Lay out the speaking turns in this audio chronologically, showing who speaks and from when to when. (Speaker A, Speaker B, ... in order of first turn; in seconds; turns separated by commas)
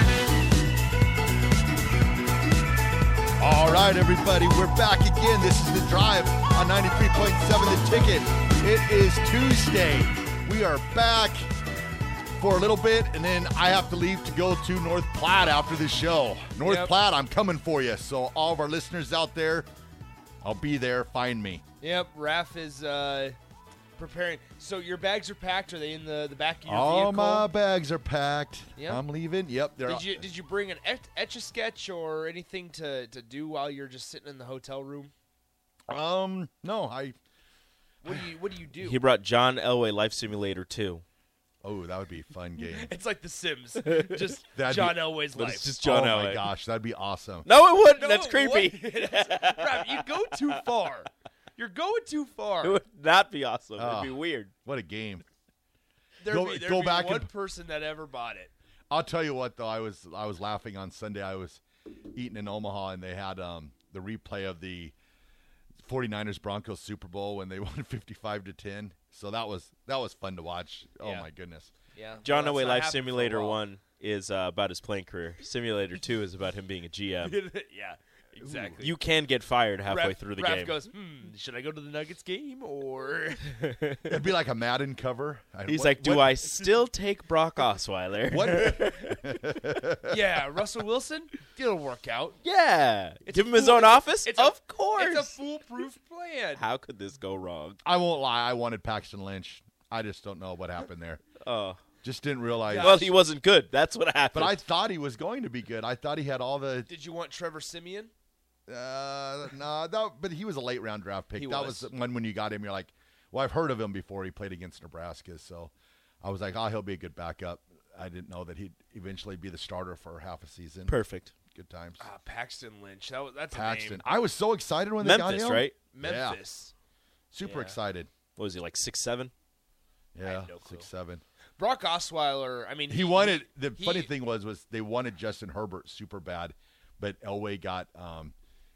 Speaker A: 3.4-11.5, Speaker A: 12.3-19.7, Speaker B: 16.6-16.9, Speaker A: 20.4-21.6, Speaker B: 21.8-23.4, Speaker B: 24.0-27.5, Speaker A: 26.6-30.2, Speaker B: 28.8-29.0, Speaker B: 29.8-35.1, Speaker A: 35.9-37.2, Speaker B: 38.0-39.0, Speaker C: 38.8-41.0, Speaker A: 41.6-42.9, Speaker B: 42.6-45.7, Speaker A: 44.5-45.2, Speaker C: 45.3-46.5, Speaker A: 45.8-47.5, Speaker C: 47.5-50.6, Speaker B: 48.0-52.8, Speaker C: 52.6-54.5, Speaker A: 53.8-55.2, Speaker B: 56.2-58.5, Speaker A: 56.3-57.3, Speaker A: 58.9-65.0, Speaker A: 65.8-71.7, Speaker B: 71.0-71.3, Speaker B: 72.0-73.6, Speaker C: 72.2-77.3, Speaker B: 77.2-78.9, Speaker A: 78.4-78.9, Speaker C: 78.8-80.8, Speaker B: 79.9-83.6, Speaker C: 83.8-84.1, Speaker A: 84.0-86.4, Speaker C: 85.7-89.8, Speaker A: 88.3-90.2, Speaker B: 90.1-92.4, Speaker C: 92.4-95.4, Speaker B: 93.3-96.7, Speaker C: 96.6-97.8, Speaker A: 97.8-101.2, Speaker C: 101.4-101.8, Speaker A: 102.0-103.1, Speaker B: 102.7-103.1, Speaker C: 102.8-104.6, Speaker A: 104.3-106.9, Speaker B: 106.9-108.1, Speaker A: 108.7-121.0, Speaker B: 111.3-111.9, Speaker C: 120.9-121.3, Speaker A: 121.5-122.1, Speaker B: 122.0-124.0, Speaker A: 123.5-126.4, Speaker C: 125.0-125.8, Speaker B: 125.9-126.7, Speaker A: 127.3-128.1, Speaker B: 127.4-127.8, Speaker C: 128.4-129.3, Speaker A: 130.2-131.2, Speaker B: 130.2-130.9, Speaker B: 131.6-134.1, Speaker A: 132.9-138.3